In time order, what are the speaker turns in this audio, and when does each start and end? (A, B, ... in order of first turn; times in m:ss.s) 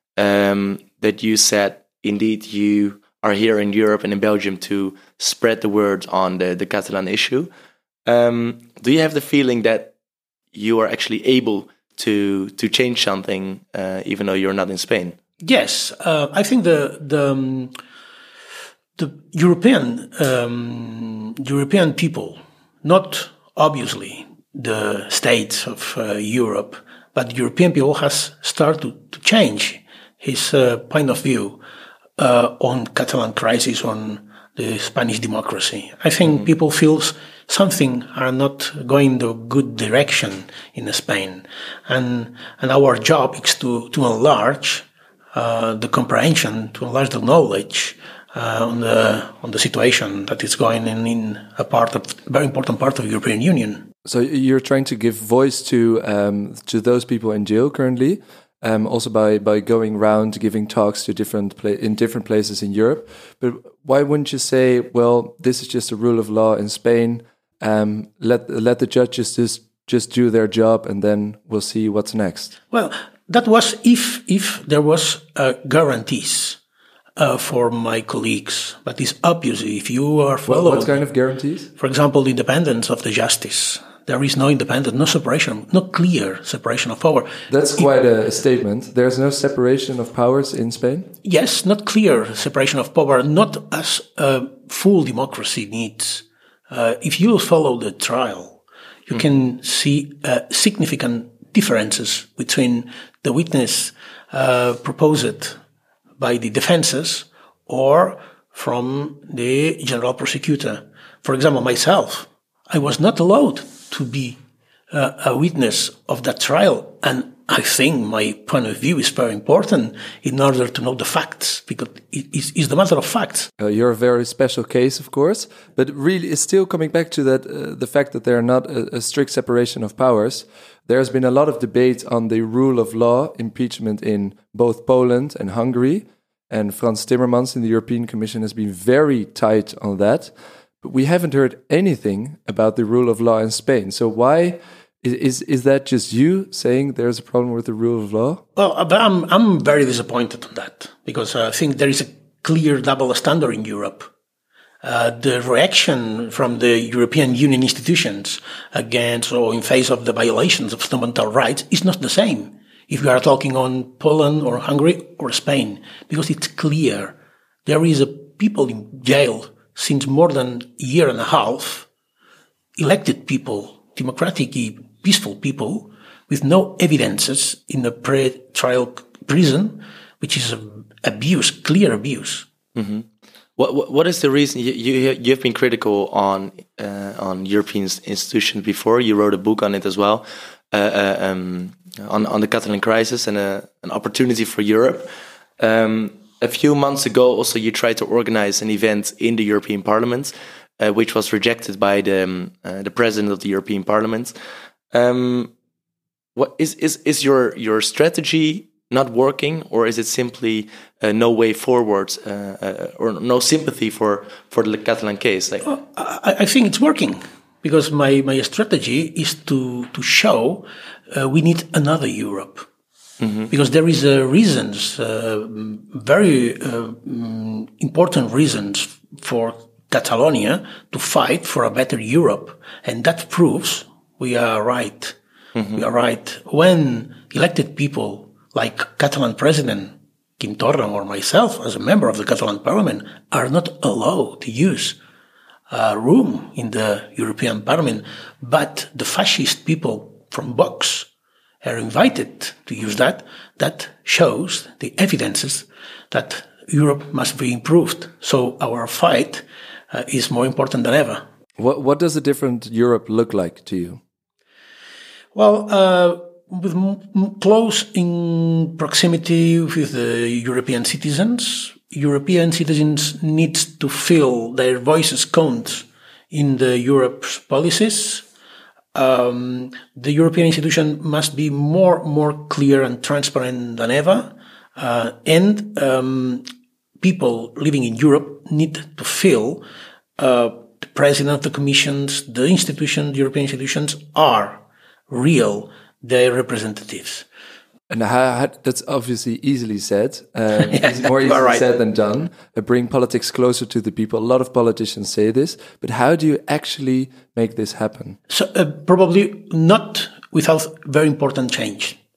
0:00.2-0:07.5 A
0:08.1-0:09.9 A
0:10.5-0:15.2 A
0:15.4-0:17.7 B
0:19.0-0:31.6 B
0:32.2-0:53.9 B
0:54.0-1:12.6 C
1:12.7-1:16.6 B
1:17.2-1:21.0 B
1:20.5-1:21.7 C
1:21.8-1:27.9 B
1:27.5-1:31.1 C
1:31.2-1:45.6 B
1:46.2-1:54.4 B
1:54.9-2:03.5 B
2:03.6-2:28.4 C
2:28.6-2:34.1 B
2:34.8-2:47.2 B
2:47.7-2:51.9 B
2:52.8-3:02.5 B
3:02.8-3:24.3 A
3:24.9-3:25.5 A
3:26.4-3:35.6 A
3:35.6-3:42.7 B
3:43.2-3:43.5 A
3:43.5-3:55.2 B
3:55.6-3:55.8 A
3:55.8-4:05.0 B
4:05.7-4:11.1 B
4:11.6-4:21.2 B
4:21.6-4:24.0 C
4:25.3-4:38.2 B
4:38.9-4:46.4 B
4:47.0-4:49.6 B
4:50.2-4:57.2 B
4:57.9-5:08.2 C
5:00.6-5:01.7 B
5:08.3-5:12.0 B